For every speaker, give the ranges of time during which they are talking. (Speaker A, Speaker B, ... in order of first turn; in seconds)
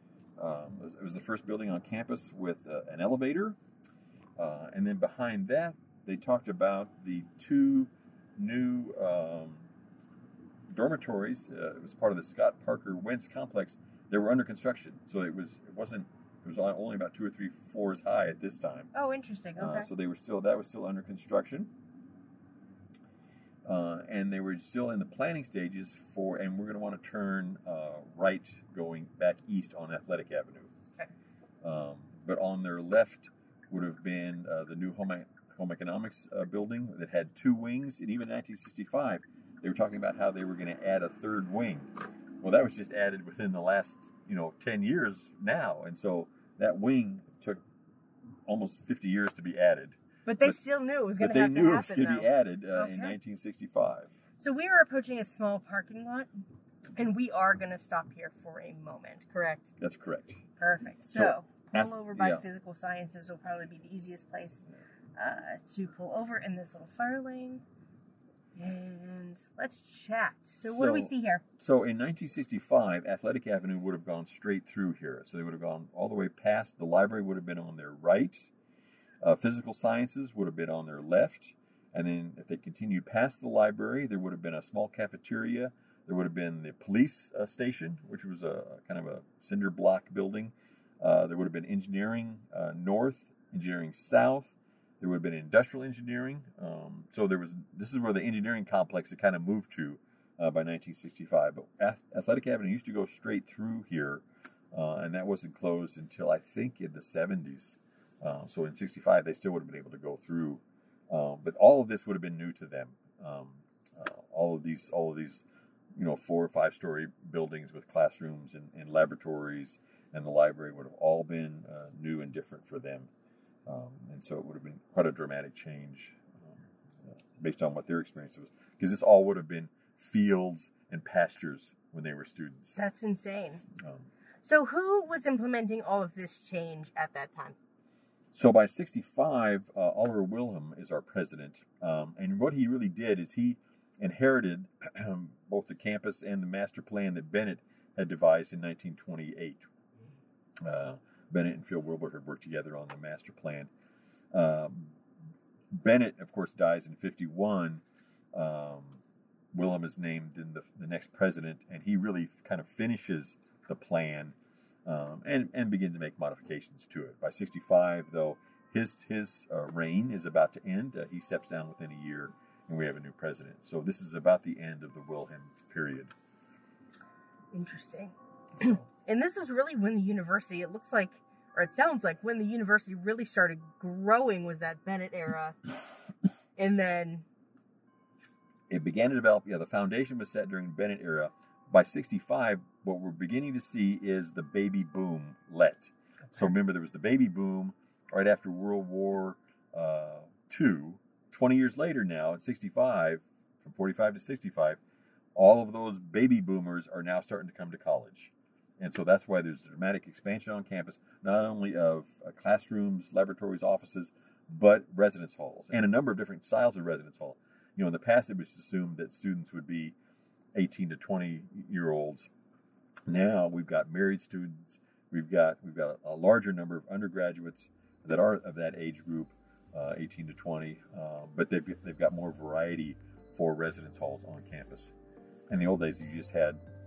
Speaker A: 0.4-3.6, 4.4-9.7, 10.7-18.9, 19.6-21.7, 23.6-30.7, 31.6-47.6, 48.5-50.6, 51.2-54.2, 59.8-60.4, 61.1-62.4, 70.6-78.5, 79.2-115.4, 116.0-123.1, 123.7-132.8, 133.8-134.1, 138.3-149.7, 150.6-153.7, 154.3-155.0, 155.7-157.8, 158.3-159.0, 159.5-176.1, 178.6-178.9, 188.7-204.8, 205.3-220.0, 220.5-222.3, 223.1-234.9, 235.5-236.6
Speaker B: 18.9-19.9, 50.3-53.2, 54.4-56.3, 57.0-59.7, 60.6-67.6, 68.5-71.4, 132.8-133.7, 134.4-137.6, 177.5-185.6, 186.6-187.3